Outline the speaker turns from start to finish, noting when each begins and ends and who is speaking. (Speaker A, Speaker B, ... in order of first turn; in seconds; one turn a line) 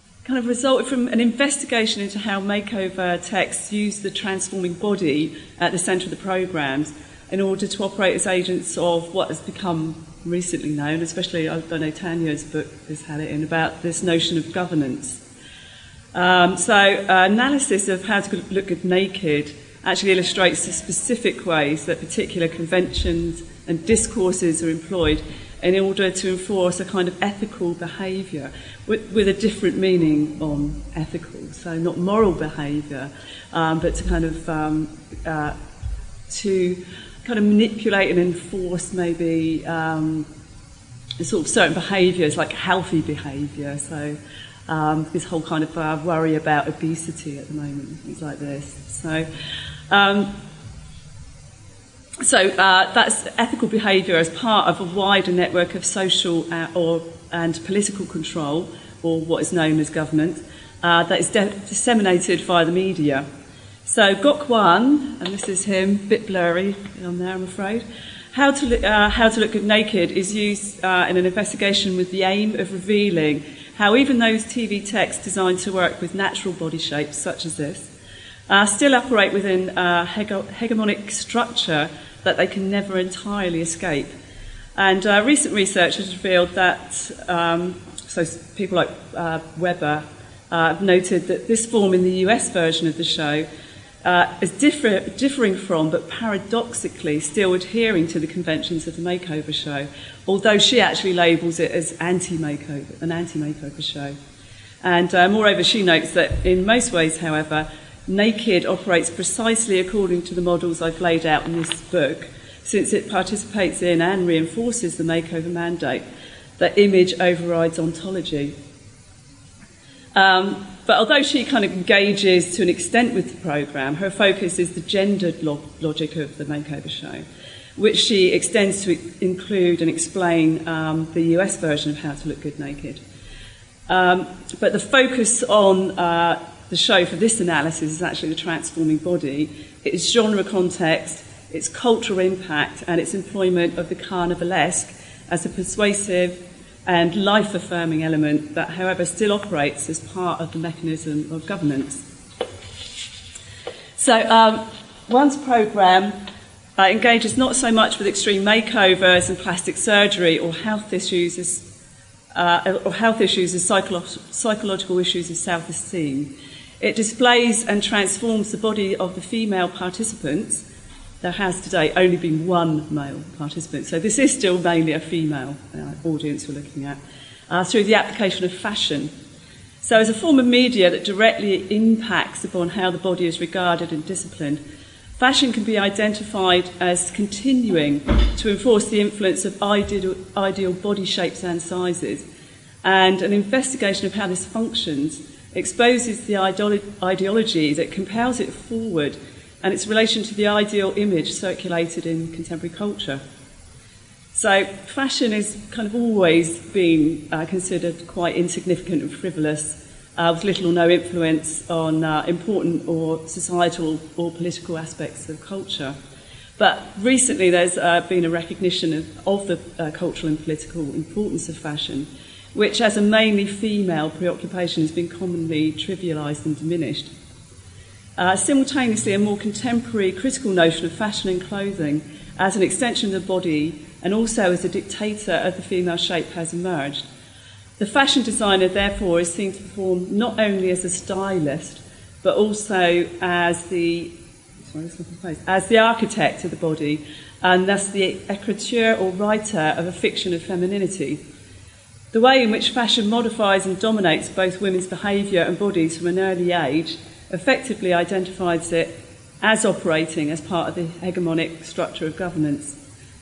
Speaker A: 0.2-15.2
Speaker A: 16.1-35.6
Speaker A: 36.3-40.3
Speaker A: 41.2-49.3
Speaker A: 49.9-50.3
Speaker A: 52.2-63.3
Speaker A: 63.9-77.9
Speaker A: 78.5-84.1
Speaker A: 84.8-93.5
Speaker A: 94.0-104.2
Speaker A: 104.8-116.0
Speaker A: 116.6-118.5
Speaker A: 120.2-127.2
Speaker A: 127.8-133.0
Speaker A: 133.9-152.0
Speaker A: 154.0-156.2
Speaker A: 156.8-161.7
Speaker A: 162.3-170.6
Speaker A: 171.2-179.1
Speaker A: 179.8-184.6
Speaker A: 185.2-192.2
Speaker A: 192.8-203.2
Speaker A: 204.3-216.0
Speaker A: 216.6-227.1
Speaker A: 228.2-237.1
Speaker A: 237.8-244.1
Speaker A: 244.7-251.2
Speaker A: 252.1-262.8